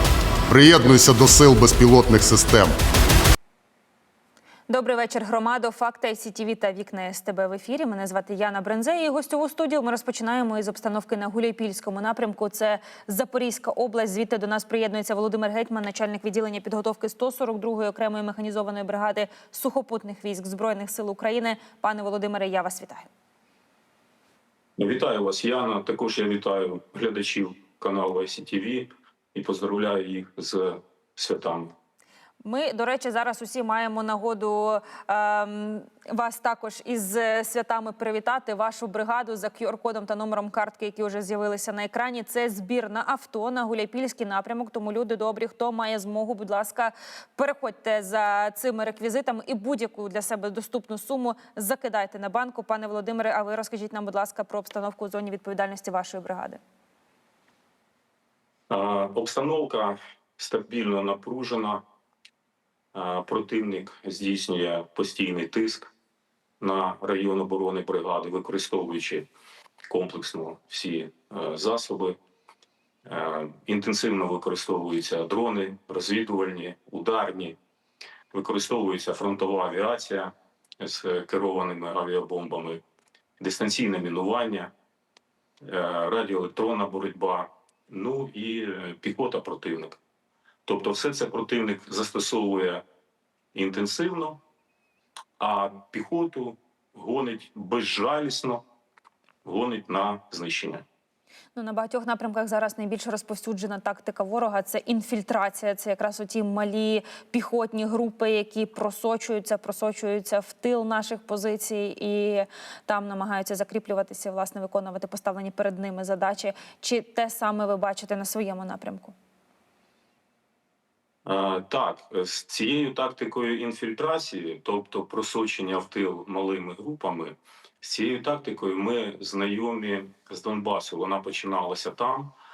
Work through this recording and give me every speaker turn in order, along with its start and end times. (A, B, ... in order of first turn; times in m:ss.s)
0:00.5-0:02.7 A
0:04.7-0:23.1 B
0:24.8-0:31.7 C
0:32.4-0:56.6 B
0:58.7-1:01.8 C
1:02.9-1:05.9 C
1:06.6-1:09.3 C
1:09.9-1:12.2 C
1:13.1-1:17.6 C
1:18.3-1:22.8 C
1:23.4-1:24.7 C
1:25.6-1:30.0 C
1:30.7-1:32.8 C
1:33.5-1:34.4 C
1:35.4-1:38.6 C
1:39.4-1:40.8 C
1:41.6-1:59.2 B
2:01.3-2:12.4 C